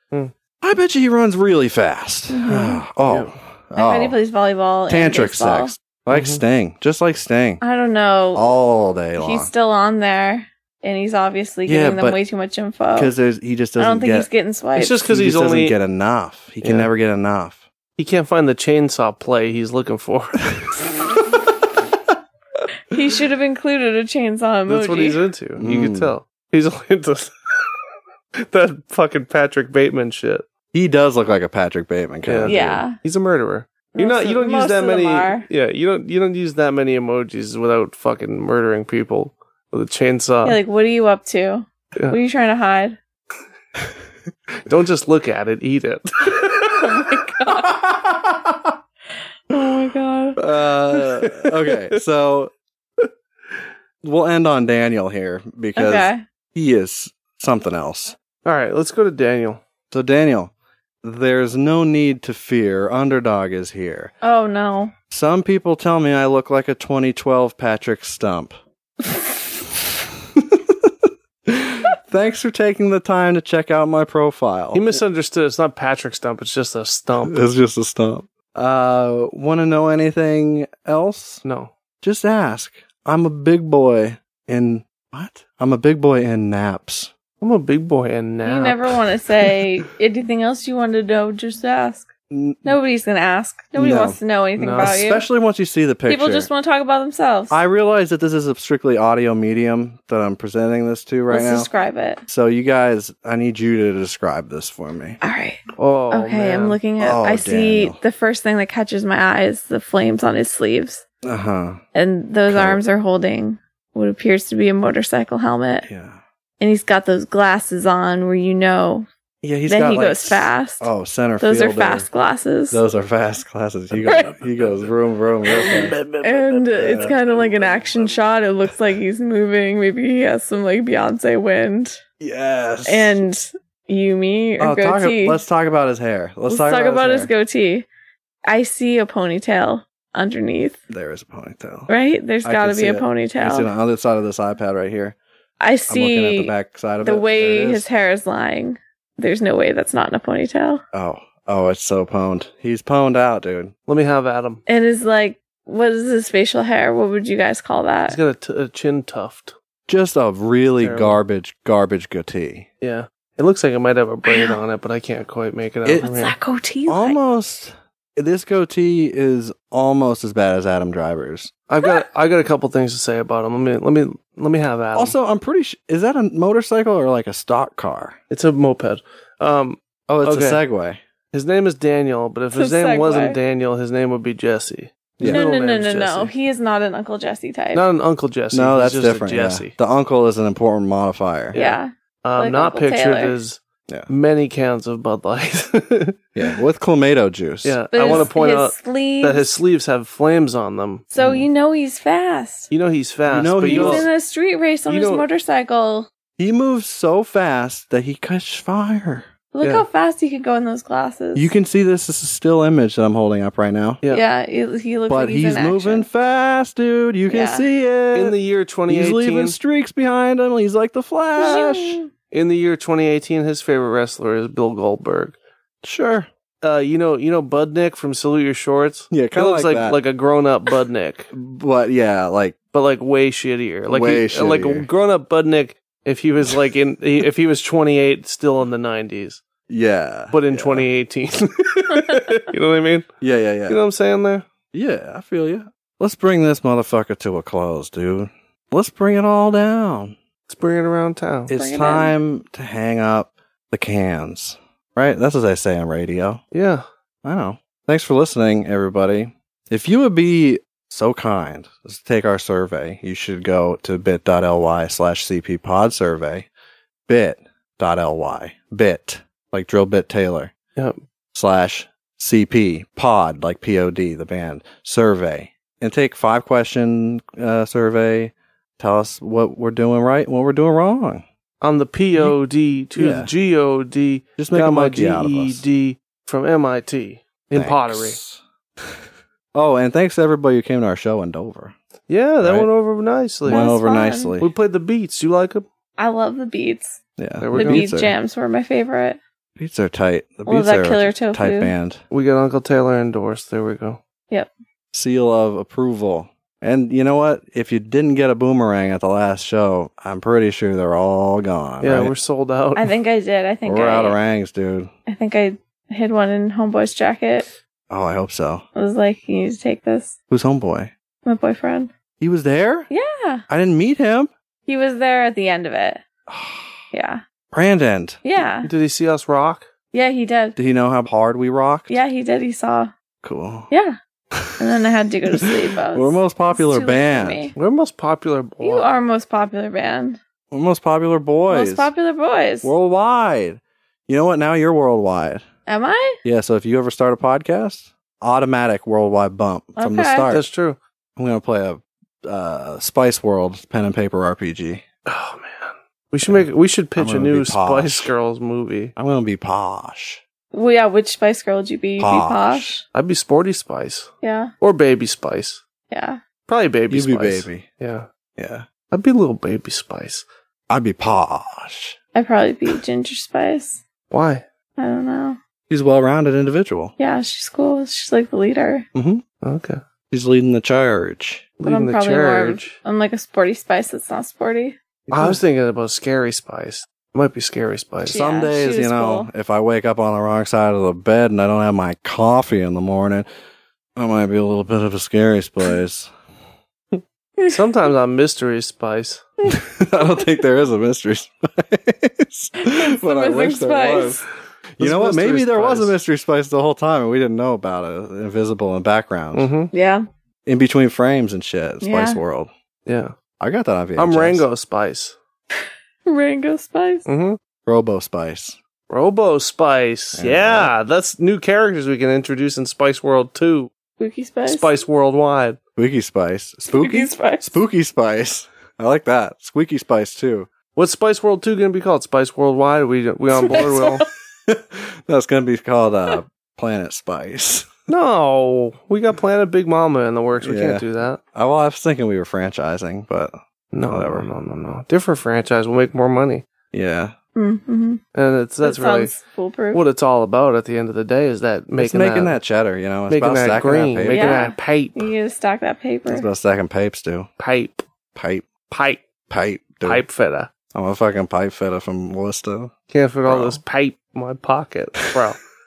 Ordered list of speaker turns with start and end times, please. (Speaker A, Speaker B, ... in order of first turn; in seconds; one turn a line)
Speaker A: 0.6-4.2
Speaker B: 2.3-2.8
Speaker C: 3.1-3.3
Speaker B: 3.8-5.7
Speaker A: 4.9-7.6
Speaker C: 6.1-6.4
Speaker B: 7.6-8.6
Speaker A: 8.3-9.5
Speaker B: 9.2-13.1
Speaker A: 11.7-12.2
Speaker A: 12.9-14.3
Speaker B: 13.8-15.0
Speaker C: 14.8-15.8
Speaker A: 15.1-17.6
Speaker C: 16.6-16.9
Speaker C: 18.0-20.6
Speaker B: 22.9-25.2
Speaker C: 24.7-27.7
Speaker A: 25.6-26.1
Speaker C: 28.4-30.4
Speaker A: 30.7-32.8
Speaker C: 32.3-40.6
Speaker B: 32.5-33.0
Speaker B: 34.0-35.5
Speaker B: 40.4-43.0
Speaker C: 44.7-46.8
Speaker B: 46.8-47.7
Speaker A: 47.7-48.7
Speaker B: 49.5-50.4
Speaker A: 50.4-52.5
Speaker C: 50.9-52.0
Speaker A: 54.0-58.2
Speaker B: 55.8-56.2
Speaker C: 58.5-59.6
Speaker A: 59.9-60.5
Speaker A: 61.0-64.1
Speaker B: 64.2-64.9
Speaker A: 65.1-68.5
Speaker A: 70.4-70.9
Speaker A: 71.5-74.9
Speaker C: 74.7-77.4
Speaker A: 77.2-81.4
Speaker C: 81.4-81.7
Speaker A: 82.0-87.1
Speaker C: 87.4-88.9
Speaker B: 88.4-92.1
Speaker A: 92.3-92.8
Speaker B: 92.7-95.3
Speaker A: 93.8-94.2
Speaker C: 94.6-94.9
Speaker A: 94.8-96.5
Speaker B: 96.1-97.6
Speaker A: 97.5-101.7
Speaker B: 101.3-102.2
Speaker A: 102.3-105.2
Speaker B: 105.2-111.0
Speaker C: 105.8-106.8
Speaker A: 107.0-108.0
Speaker A: 111.2-111.8
Speaker B: 112.0-115.9
Speaker A: 112.5-112.8
Speaker A: 115.8-116.2
Speaker B: 116.6-119.1
Speaker A: 119.4-122.1
Speaker B: 119.7-120.9
Speaker B: 121.4-122.8
Speaker A: 122.7-126.0
Speaker C: 124.0-124.9
Speaker C: 125.5-128.2
Speaker B: 126.2-132.0
Speaker A: 126.8-127.2
Speaker A: 132.2-133.2
Speaker B: 132.9-135.4
Speaker A: 134.6-137.3
Speaker B: 136.5-137.9
Speaker B: 138.5-140.8
Speaker A: 140.9-141.9
Speaker B: 141.9-143.7
Speaker A: 142.4-145.2
Speaker B: 145.6-150.8
Speaker A: 145.9-147.9
Speaker A: 150.9-153.7
Speaker C: 153.9-154.6
Speaker B: 154.7-158.2
Speaker C: 158.1-159.5
Speaker A: 159.9-162.7
Speaker C: 160.8-161.2
Speaker C: 162.8-166.4
Speaker B: 164.2-164.6
Speaker B: 166.0-167.2
Speaker A: 166.9-171.5
Speaker C: 171.7-175.2
Speaker A: 174.9-178.2
Speaker C: 178.3-180.6
Speaker A: 180.1-181.0
Speaker C: 181.3-186.3
Speaker B: 182.5-183.4
Speaker A: 185.2-185.4
Speaker B: 185.3-187.8
Speaker C: 187.7-189.7
Speaker A: 188.5-191.6
Speaker B: 191.5-193.4
Speaker C: 191.5-196.2
Speaker A: 196.4-198.3
Speaker C: 197.6-201.1
Speaker B: 197.9-199.5
Speaker B: 201.1-202.7
Speaker A: 201.2-201.5
Speaker C: 202.7-204.1
Speaker A: 203.3-204.1
Speaker B: 203.7-206.1
Speaker C: 204.9-205.2
Speaker A: 206.4-209.3
Speaker B: 209.5-211.5
Speaker A: 211.3-214.0
Speaker B: 214.1-216.1
Speaker A: 215.1-218.4
Speaker B: 217.3-217.7
Speaker C: 218.1-219.6
Speaker A: 218.9-222.0
Speaker B: 221.4-222.1
Speaker C: 222.3-225.4
Speaker A: 225.8-226.3
Speaker C: 226.6-231.3
Speaker A: 229.1-230.0
Speaker A: 231.3-232.6
Speaker C: 232.7-239.4
Speaker A: 233.9-234.9
Speaker A: 239.7-240.9
Speaker C: 240.3-243.1
Speaker A: 243.2-243.8
Speaker C: 243.7-244.5
Speaker A: 244.7-250.2
Speaker C: 250.5-251.5
Speaker A: 251.5-256.4
Speaker B: 251.6-252.1
Speaker C: 256.5-256.8
Speaker A: 257.2-266.5
Speaker A: 267.1-270.5
Speaker A: 271.3-281.2
Speaker C: 281.6-288.2
Speaker A: 283.0-283.3
Speaker A: 284.4-285.6
Speaker A: 287.5-289.0
Speaker A: 289.5-291.8
Speaker C: 292.1-293.7
Speaker A: 292.4-292.7
Speaker A: 293.4-294.5
Speaker B: 293.5-294.4
Speaker C: 294.4-295.6
Speaker B: 296.0-297.0
Speaker A: 297.2-298.1
Speaker C: 297.4-297.9
Speaker B: 297.6-299.2
Speaker A: 299.6-302.0
Speaker B: 300.5-301.7
Speaker C: 302.1-304.0
Speaker A: 304.9-312.1
Speaker C: 311.8-312.9
Speaker B: 312.8-314.2
Speaker A: 313.7-314.9
Speaker B: 315.1-317.5
Speaker A: 317.9-318.6
Speaker B: 318.8-320.1
Speaker A: 320.3-320.9
Speaker B: 321.2-321.9
Speaker A: 322.2-322.9
Speaker B: 322.9-323.4
Speaker A: 323.5-324.3
Speaker B: 324.7-326.0
Speaker A: 326.3-326.8
Speaker B: 326.9-327.2
Speaker A: 327.5-328.2
Speaker B: 328.2-328.7
Speaker C: 328.6-329.6
Speaker B: 329.9-330.6
Speaker A: 330.6-332.0
Speaker B: 331.9-332.9
Speaker A: 333.2-333.7
Speaker B: 333.7-334.0
Speaker A: 334.3-334.6
Speaker B: 334.6-337.5
Speaker A: 335.3-337.5
Speaker C: 337.6-338.9
Speaker B: 338.6-340.2
Speaker A: 340.5-341.9
Speaker B: 341.5-342.7
Speaker A: 342.6-345.4
Speaker B: 345.7-346.2
Speaker A: 346.2-350.4
Speaker B: 349.8-350.3
Speaker C: 350.3-350.8
Speaker A: 351.2-354.8
Speaker C: 355.1-358.9
Speaker A: 356.3-358.1
Speaker A: 359.0-360.2
Speaker B: 360.5-362.8
Speaker A: 362.0-362.8
Speaker C: 362.9-365.6
Speaker B: 364.2-364.5
Speaker B: 365.9-366.2
Speaker C: 366.5-368.1
Speaker A: 366.9-367.7
Speaker A: 368.4-368.7
Speaker C: 368.9-370.2
Speaker A: 370.7-372.0
Speaker B: 372.1-373.8
Speaker C: 374.1-374.4
Speaker B: 374.8-375.4
Speaker A: 375.7-376.9
Speaker B: 377.0-378.9
Speaker A: 378.9-379.2
Speaker C: 379.4-379.8
Speaker A: 380.1-381.5
Speaker C: 381.6-382.8
Speaker B: 381.6-384.8
Speaker C: 385.1-388.2
Speaker A: 385.1-385.4
Speaker B: 388.1-389.3
Speaker A: 388.1-393.3
Speaker A: 394.0-396.1
Speaker C: 397.5-399.3
Speaker A: 399.5-404.2
Speaker B: 402.6-404.2
Speaker A: 404.8-409.5
Speaker C: 404.8-405.9
Speaker C: 409.3-409.7
Speaker B: 409.7-410.0
Speaker A: 410.5-412.5
Speaker B: 411.8-412.2
Speaker C: 412.9-413.1
Speaker A: 413.4-414.4
Speaker C: 414.0-415.2
Speaker B: 416.1-417.1
Speaker C: 417.1-417.4
Speaker A: 417.6-418.6
Speaker C: 418.9-423.7
Speaker A: 420.2-420.7
Speaker B: 424.0-424.7
Speaker C: 424.5-425.6
Speaker A: 425.8-430.5
Speaker B: 426.7-427.5
Speaker C: 430.8-434.1
Speaker B: 433.4-434.0
Speaker A: 434.5-437.7
Speaker C: 437.9-441.2
Speaker A: 440.4-444.3
Speaker C: 443.7-446.4
Speaker A: 446.7-447.1
Speaker B: 447.4-448.0
Speaker C: 448.1-449.2
Speaker B: 448.6-449.8
Speaker C: 449.7-452.4
Speaker A: 451.8-454.5
Speaker C: 453.1-455.1
Speaker B: 454.1-456.3
Speaker A: 456.1-457.3
Speaker C: 457.4-457.8
Speaker A: 458.1-458.6
Speaker C: 458.7-459.1
Speaker A: 459.3-460.0
Speaker C: 459.8-460.5
Speaker A: 460.7-462.7
Speaker C: 462.9-465.4
Speaker A: 463.3-463.6